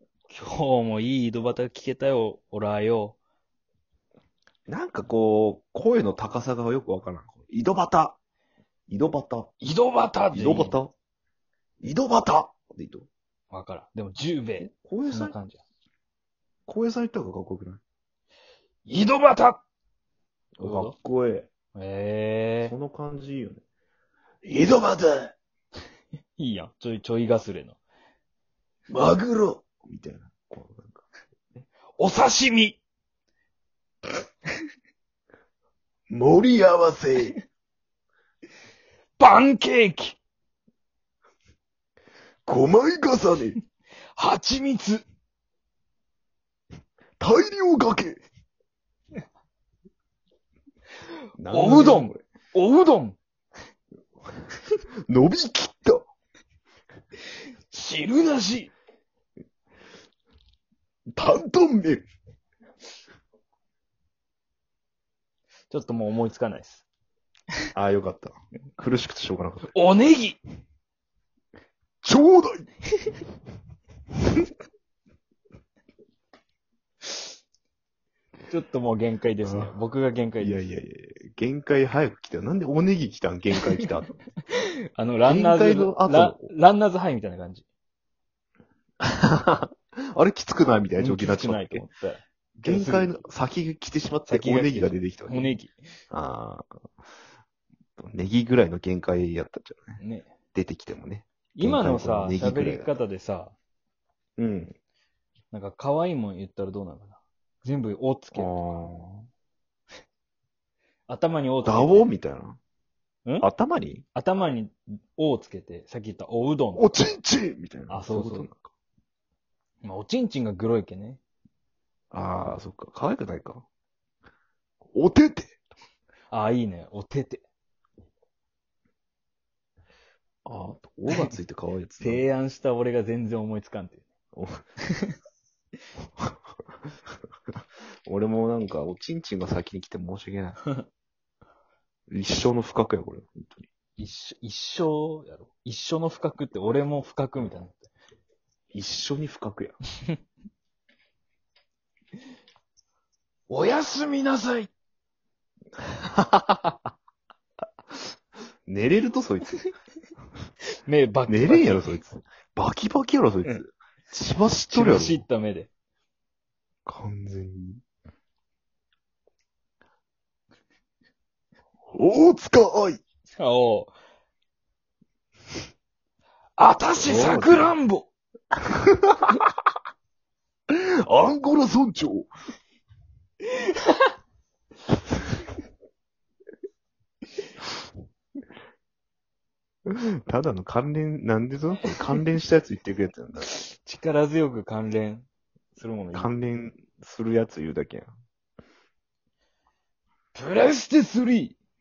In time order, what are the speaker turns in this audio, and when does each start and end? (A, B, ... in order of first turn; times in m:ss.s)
0:00.3-0:03.2 A
0:04.7-0:08.2 B
0:08.9-0:09.5 B
0:09.6-0:10.8 A
0:10.3-0:10.9 B
0:11.8-0:13.1 B
0:13.5-0:15.6 A
0:14.6-0:15.3 B
0:16.7-0:17.8 B
0:18.8-0:19.6 A
0:20.6-0:21.5 B
0:20.6-0:20.9 A
0:21.7-0:22.7 A
0:22.6-0:23.6 B
0:24.4-0:25.3 A
0:26.4-0:27.8 A
0:28.9-0:31.0 B
0:32.0-0:32.8 A
0:36.1-0:37.4 B
0:39.2-0:40.2 A
0:42.4-0:43.6 B
0:44.1-0:45.0 A
0:47.2-0:48.2 B
0:51.4-0:52.2 B
0:51.5-0:53.2 A
0:55.1-0:56.1 B
0:57.7-0:58.7 A
1:01.2-1:02.0 B
1:05.7-1:06.8 A
1:07.7-1:09.7 B
1:09.7-1:10.4 A
1:12.0-1:12.7 B
1:18.5-1:20.6 A
1:19.4-1:19.7 B
1:20.4-1:24.1 B
1:24.5-1:27.6 A
1:25.2-1:26.5 B
1:29.0-1:31.8 B
1:31.0-1:33.2 A
1:32.6-1:35.6 B
1:34.3-1:35.8 A
1:36.1-1:36.6 B
1:38.0-1:40.0 B
1:40.0-1:40.3 A
1:40.5-1:42.9 B
1:41.6-1:43.5 A
1:44.4-1:44.7 B
1:45.5-1:48.6 A
1:48.3-1:49.2 B
1:51.1-1:52.1 A
1:51.6-1:52.6 B
1:53.4-1:54.0 B
1:54.1-1:56.9 A
1:56.7-1:58.6 B
1:57.9-1:58.5 A
1:59.8-2:01.2 A
2:02.1-2:03.6 B
2:04.9-2:05.6 B
2:06.3-2:07.4 A
2:10.4-2:12.2 B
2:12.0-2:14.0 A
2:14.3-2:14.6 B
2:18.0-2:20.6 B
2:22.1-2:23.7 B
2:24.0-2:27.9 A
2:28.7-2:29.8 B
2:33.5-2:34.7 A
2:36.0-2:36.8 B
2:38.7-2:39.6 B
2:40.8-2:41.9 A
2:41.3-2:45.2 B
2:44.7-2:45.7 A
2:46.8-2:47.8 B
2:51.9-2:53.0 B
2:53.4-2:53.9 A
2:56.6-2:58.1 A
2:57.0-2:57.8 B
2:58.7-2:59.4 B
3:00.7-3:02.3 B
3:03.6-3:04.0 A
3:09.9-3:13.5 B
3:13.4-3:16.3 A
3:16.1-3:18.1 B
3:20.3-3:21.6 A